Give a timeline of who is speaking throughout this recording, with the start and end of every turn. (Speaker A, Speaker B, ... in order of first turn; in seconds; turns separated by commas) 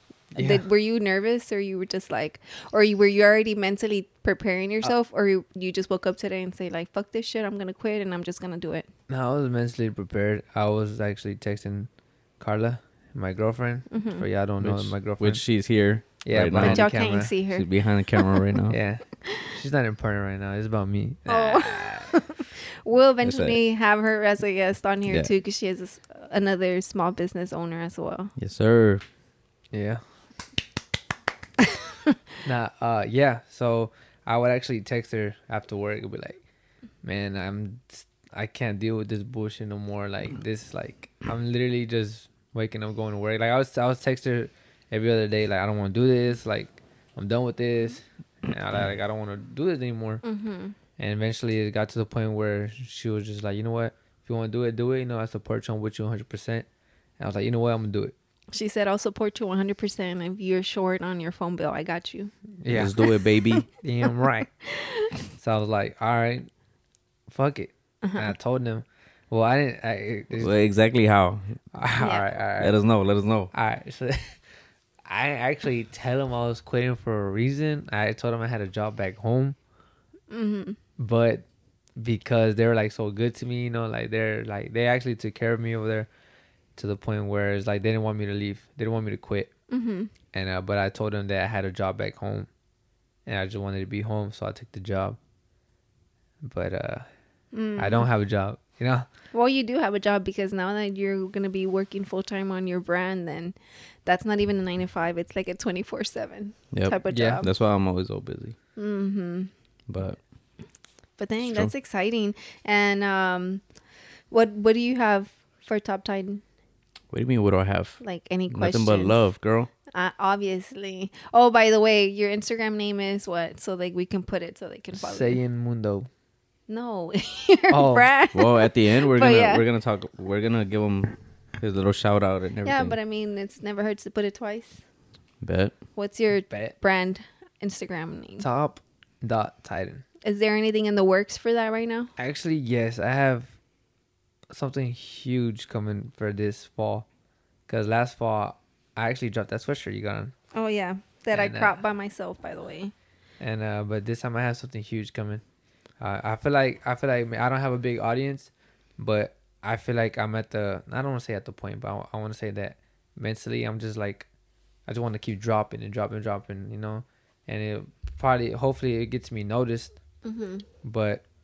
Speaker A: 0.3-0.6, Speaker B: 0.3-8.9, Speaker A: 9.1-11.9, Speaker A: 12.4-15.4, Speaker B: 13.9-14.2, Speaker C: 14.6-18.8, Speaker A: 16.2-17.3, Speaker B: 16.5-18.4, Speaker A: 18.7-22.1, Speaker B: 19.2-19.5, Speaker B: 21.3-28.3, Speaker C: 23.2-23.6, Speaker C: 28.4-29.0, Speaker A: 29.7-30.0, Speaker A: 32.4-36.4, Speaker A: 37.0-50.2, Speaker B: 50.2-50.8, Speaker A: 51.0-56.6, Speaker A: 57.2-58.1, Speaker B: 58.5-62.3, Speaker A: 62.6-62.9, Speaker C: 62.7-63.7, Speaker B: 63.0-63.6, Speaker A: 63.8-64.5, Speaker B: 64.6-65.1, Speaker A: 65.3-66.5, Speaker A: 67.3-70.5, Speaker B: 68.0-68.3, Speaker C: 70.4-71.5, Speaker A: 71.7-72.8, Speaker B: 72.0-72.2, Speaker C: 72.6-73.5, Speaker A: 73.5-74.4, Speaker A: 75.0-79.5, Speaker B: 80.3-80.8, Speaker A: 81.0-81.4, Speaker A: 82.0-86.1, Speaker A: 86.8-89.5, Speaker B: 89.7-90.1, Speaker A: 90.3-92.5, Speaker A: 93.2-95.2, Speaker A: 96.4-97.1, Speaker B: 97.5-98.1, Speaker A: 97.8-99.1, Speaker B: 99.3-107.5, Speaker C: 106.7-108.5, Speaker A: 107.1-107.4, Speaker B: 108.8-109.5, Speaker C: 109.9-110.2, Speaker B: 111.2-113.6, Speaker C: 111.4-111.7, Speaker B: 114.3-116.4, Speaker C: 117.1-119.7, Speaker B: 118.0-119.2, Speaker B: 119.9-125.4, Speaker A: 124.9-126.1, Speaker B: 126.7-129.6, Speaker A: 127.7-128.1, Speaker C: 128.3-132.9, Speaker B: 132.6-134.8, Speaker C: 135.4-135.8, Speaker B: 135.9-138.5, Speaker A: 136.5-136.7, Speaker A: 138.4-140.0, Speaker B: 140.2-142.1, Speaker A: 142.2-143.5, Speaker A: 144.5-147.1, Speaker A: 147.7-150.3, Speaker B: 150.5-152.9, Speaker A: 151.3-151.8, Speaker A: 153.4-155.4, Speaker A: 156.0-164.3, Speaker A: 164.9-169.9, Speaker B: 170.2-170.6, Speaker A: 170.8-171.2